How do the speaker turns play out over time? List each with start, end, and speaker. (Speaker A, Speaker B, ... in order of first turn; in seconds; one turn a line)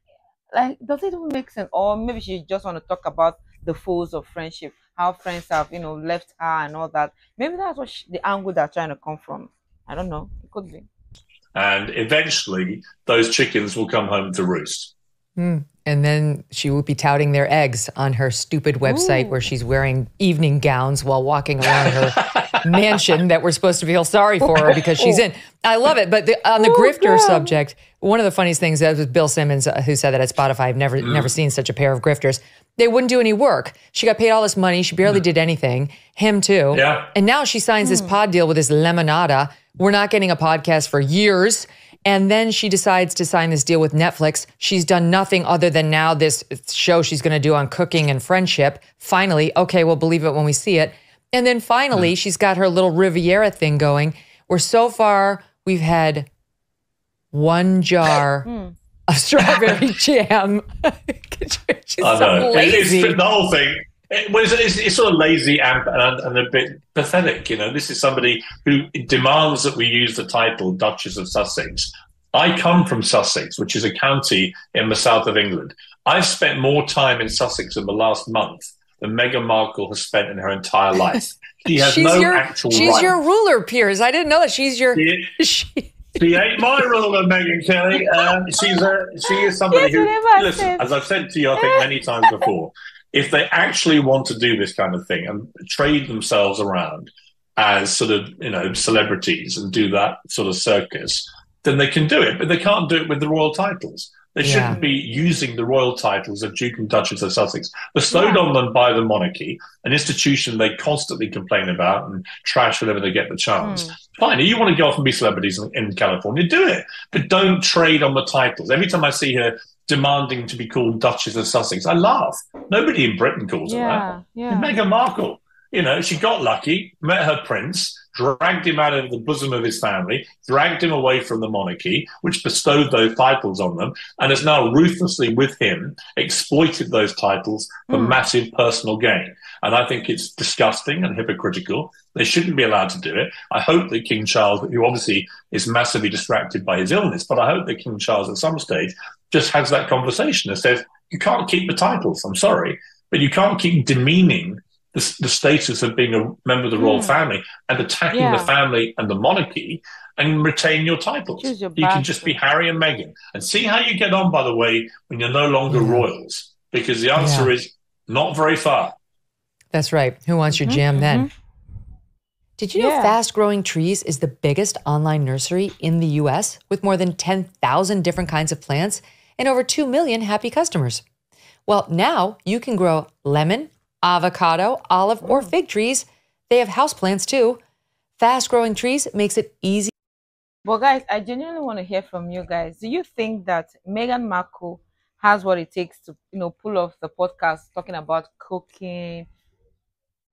Speaker A: 0.5-10.9
Speaker B: 11.6-14.9
Speaker C: 15.4-56.3
Speaker A: 18.8-19.4
Speaker B: 21.6-22.9
Speaker A: 25.0-25.2
Speaker A: 26.6-27.6
Speaker B: 31.0-31.4
Speaker B: 36.7-37.1
Speaker A: 37.8-38.1
Speaker C: 57.3-58.5
Speaker A: 58.5-58.8
Speaker C: 59.1-63.2
Speaker B: 59.4-59.8
Speaker B: 62.0-83.2
Speaker C: 81.2-86.3
Speaker B: 85.0-85.3
Speaker B: 86.2-168.9
Speaker A: 88.6-90.9
Speaker A: 91.5-92.5
Speaker C: 104.4-104.8
Speaker A: 108.1-108.4
Speaker A: 113.6-114.0
Speaker A: 123.7-124.8
Speaker A: 137.9-138.2
Speaker A: 156.8-157.2
Speaker A: 158.1-158.5
Speaker A: 161.4-162.4
Speaker C: 165.7-166.1
Speaker C: 167.2-167.5
Speaker C: 169.7-171.3
Speaker A: 170.6-171.3
Speaker C: 172.6-181.0
Speaker A: 172.8-173.2
Speaker C: 181.7-187.6
Speaker A: 185.2-185.5
Speaker C: 188.2-189.9
Speaker A: 190.7-199.3